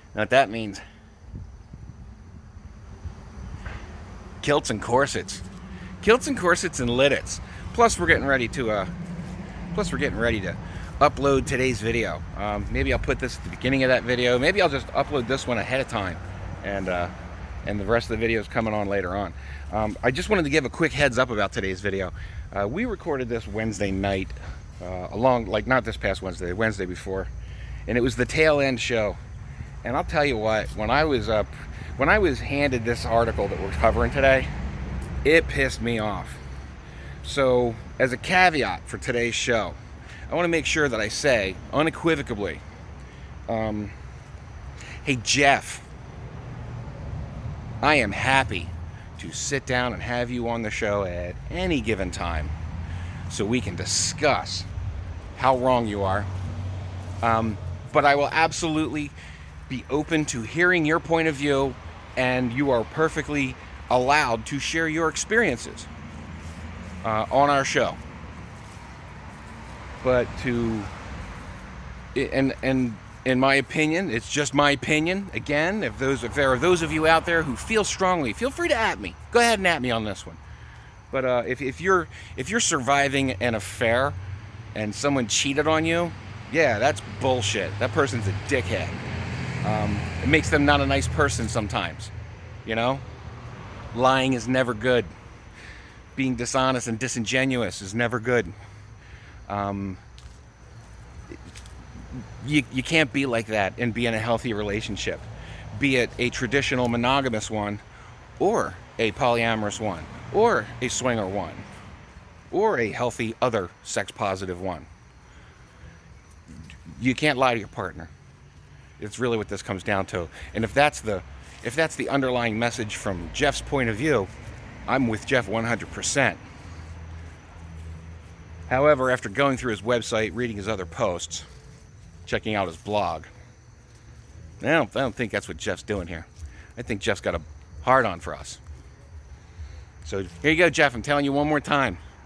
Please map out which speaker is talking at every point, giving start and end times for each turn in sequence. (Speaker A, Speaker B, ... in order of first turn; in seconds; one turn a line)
Speaker A: 0.1-0.8
Speaker A: 4.4-5.4
Speaker A: 6.0-8.9
Speaker A: 9.7-17.1
Speaker A: 17.6-27.3
Speaker A: 27.9-29.2
Speaker A: 29.8-34.5
Speaker A: 35.2-36.4
Speaker A: 37.2-39.8
Speaker A: 40.3-42.6
Speaker A: 43.5-43.9
Speaker A: 45.0-45.8
Speaker A: 47.8-52.5
Speaker A: 53.3-54.7
Speaker A: 55.4-56.3
Speaker A: 57.2-59.1
Speaker A: 59.7-65.9
Speaker A: 67.0-68.0
Speaker A: 70.0-70.9
Speaker A: 72.2-80.4
Speaker A: 81.1-84.2
Speaker A: 84.7-89.0
Speaker A: 89.6-92.1
Speaker A: 92.7-93.0
Speaker A: 93.9-95.1
Speaker A: 96.2-98.5
Speaker A: 99.5-100.0
Speaker A: 102.4-107.8
Speaker A: 108.4-111.7
Speaker A: 112.5-114.9
Speaker A: 116.9-118.1
Speaker A: 119.0-124.3
Speaker A: 124.9-126.4
Speaker A: 128.7-131.4
Speaker A: 132.3-133.3
Speaker A: 134.6-138.6
Speaker A: 140.0-142.0